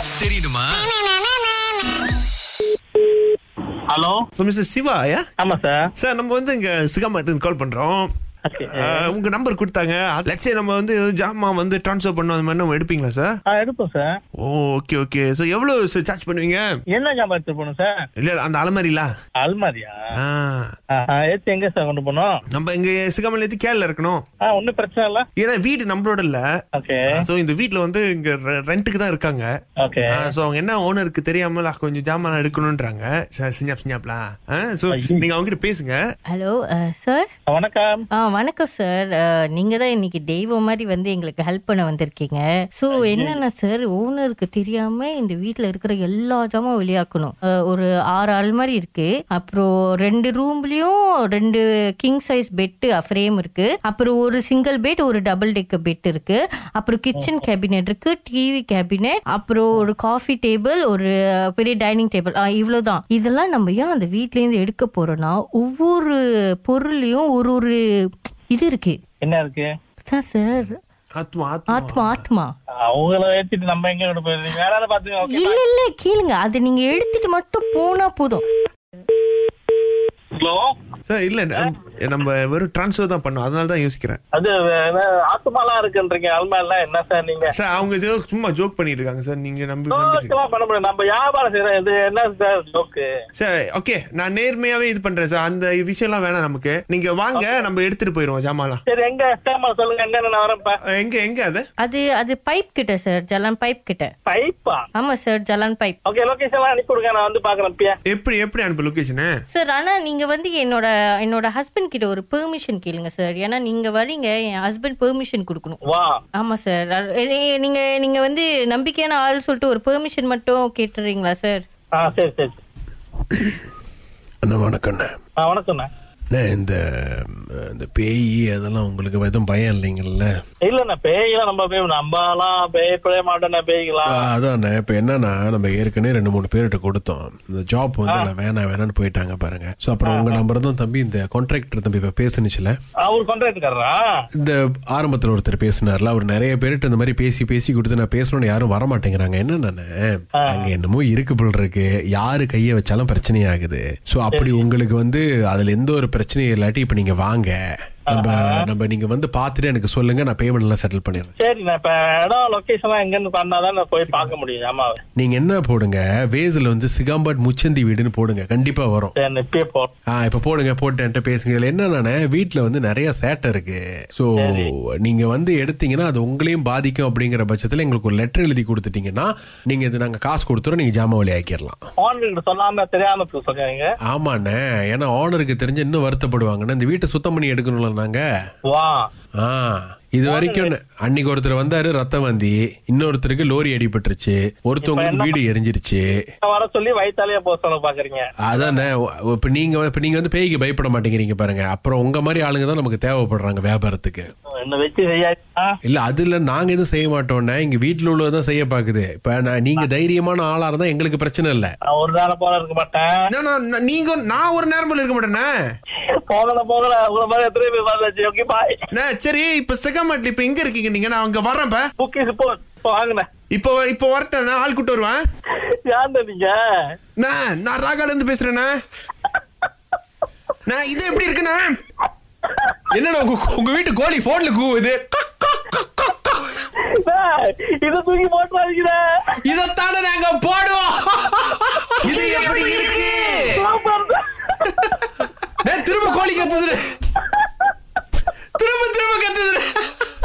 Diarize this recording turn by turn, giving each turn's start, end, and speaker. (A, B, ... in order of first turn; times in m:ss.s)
0:00.2-0:00.9 A
0:03.9-0:04.2 B
0:04.4-0:05.2 C
0:05.4-0:05.8 B
0:06.0-0:08.1 C
0:08.5-0:09.1 B
0:08.7-0:13.3 C
0:13.5-0:14.1 B
0:14.4-0:16.6 C
0:16.9-0:18.0 B
0:18.2-0:19.1 C
0:19.4-0:20.0 B
0:20.1-0:20.7 C
0:20.9-0:22.4 B
0:22.5-0:24.2 C
0:24.4-0:25.3 B
0:25.4-0:26.4 C
0:26.8-0:27.2 B
0:27.1-0:29.5 C
0:29.8-0:30.3 B
0:30.1-0:36.0 C
0:34.9-0:35.2 B
0:36.3-0:37.3 D
0:37.5-0:38.0 B
0:38.1-1:07.8 D
0:43.0-0:43.4 B
1:08.5-1:09.0 D
1:09.2-1:09.7 B
1:10.1-1:10.8 D
1:11.2-1:12.1 C
1:11.7-1:12.5 D
1:12.8-1:15.6 B
1:15.2-1:18.4 D
1:20.4-1:20.7 B
1:21.1-1:24.2 C
1:24.3-1:27.5 B
1:27.4-1:30.3 C
1:29.9-1:33.1 B
1:33.4-1:38.8 C
1:37.4-1:37.6 B
1:38.9-1:40.8 B
1:41.0-1:41.6 C
1:41.8-1:44.1 D
1:44.2-1:44.8 B
1:45.0-1:46.0 D
1:46.1-1:48.0 B
1:48.1-1:49.3 C
1:49.5-1:55.8 D
1:55.9-1:56.2 B
1:56.4-2:01.6 D
2:02.0-2:02.6 B
2:04.4-2:05.2 E
2:05.4-2:05.9 B
2:06.3-2:10.3 E
2:10.7-2:14.3 B
2:14.1-2:22.8 E
2:20.0-2:20.4 B
2:23.0-2:24.1 B
2:24.4-2:37.6 E
2:30.4-2:30.7 B
2:34.3-2:34.6 B
2:38.1-2:41.3 E
2:38.1-2:38.6 B
2:41.4-2:45.0 B
2:45.2-2:49.1 E
2:49.2-2:49.9 B
2:50.1-3:01.8 E
2:54.4-2:54.7 B
3:02.0-3:03.9 B
3:04.1-3:08.2 E
3:08.7-3:09.1 B
3:09.4-3:16.1 E
3:10.2-3:10.7 B
3:14.8-3:15.4 B
3:16.4-3:18.9 B
3:18.5-3:24.3 E
3:24.6-3:25.8 B
3:25.8-3:31.7 E
3:31.9-3:33.1 B
3:33.3-3:35.5 C
3:36.1-3:38.8 B
3:38.9-3:41.8 C
3:42.0-3:43.2 B
3:43.5-3:45.2 C
3:45.9-3:46.6 B
3:47.2-3:48.7 C
3:50.7-3:51.8 C
3:52.9-3:56.5 E
3:57.0-3:59.0 B
3:59.4-4:03.4 E
4:02.1-4:03.4 A
4:02.4-4:03.1 C
4:03.5-4:04.9 B
4:05.6-4:06.8 E
4:06.0-4:06.6 B
4:08.6-4:09.9 E